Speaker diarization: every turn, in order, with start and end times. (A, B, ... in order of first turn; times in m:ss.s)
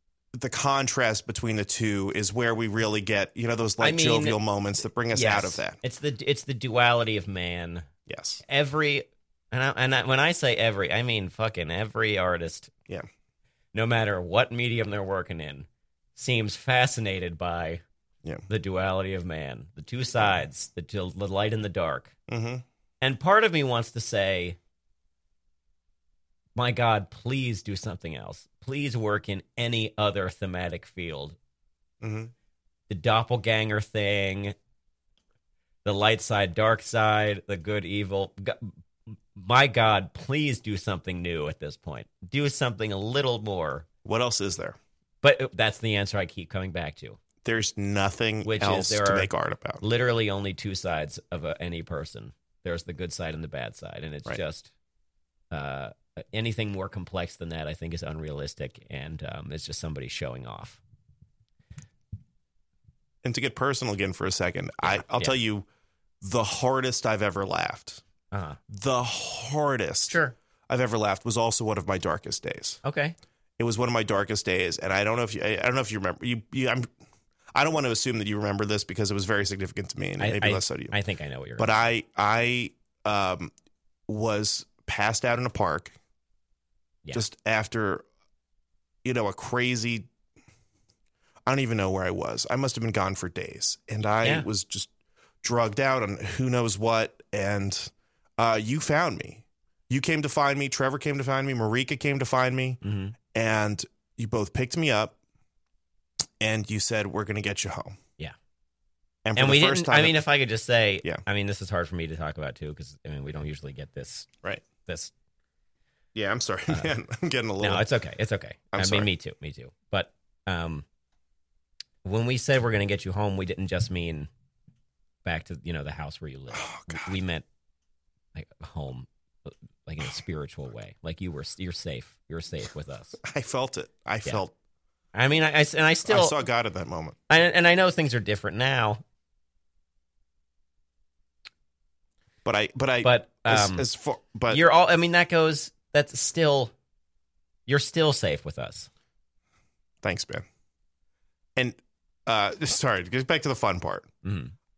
0:00.3-0:05.8 A
0:03.8-0:04.4 B
0:05.1-0:07.9 B
0:08.1-0:08.4 A
0:08.5-0:12.7 B
0:13.7-0:17.8 B
0:18.5-0:22.1 B
0:22.3-0:22.6 A
0:23.0-0:24.6 B
0:26.6-0:31.4 B
0:32.0-0:32.3 A
0:32.9-0:34.6 B
0:35.8-0:43.9 B
0:44.0-0:44.8 A
0:45.2-0:47.2 B
0:47.4-0:49.8 A
0:48.4-0:49.3 B
0:49.8-0:54.7 B
0:55.5-1:00.8 B
1:03.2-1:05.7 A
1:04.8-1:05.4 B
1:06.2-1:08.0 A
1:08.3-1:08.6 B
1:08.7-1:10.2 A
1:10.1-1:10.4 B
1:10.7-1:12.8 A
1:12.8-1:13.2 B
1:13.6-1:16.9 A
1:17.6-1:21.0 A
1:20.2-1:21.8 B
1:21.6-1:23.5 A
1:24.1-1:26.0 A
1:27.1-1:28.0 A
1:29.0-1:30.1 A
1:31.5-1:34.9 A
1:34.2-1:34.5 B
1:35.4-1:42.8 A
1:42.8-1:43.2 B
1:43.3-1:45.2 A
1:46.4-1:48.0 A
1:49.2-1:50.3 A
1:49.4-1:54.3 B
1:54.8-1:55.1 B
1:56.2-1:57.9 A
1:57.6-2:00.8 B
1:58.7-1:59.1 A
2:02.0-2:04.3 B
2:05.2-2:07.4 B
2:06.6-2:07.1 A
2:08.4-2:13.2 B
2:13.2-2:14.5 A
2:15.2-2:16.4 B
2:16.1-2:17.2 A
2:17.3-2:19.0 B
2:22.4-2:24.6 A
2:23.0-2:23.9 B
2:24.5-2:26.7 B
2:27.7-2:28.9 B
2:30.0-2:30.4 A
2:31.6-2:34.1 A
2:34.2-2:34.5 B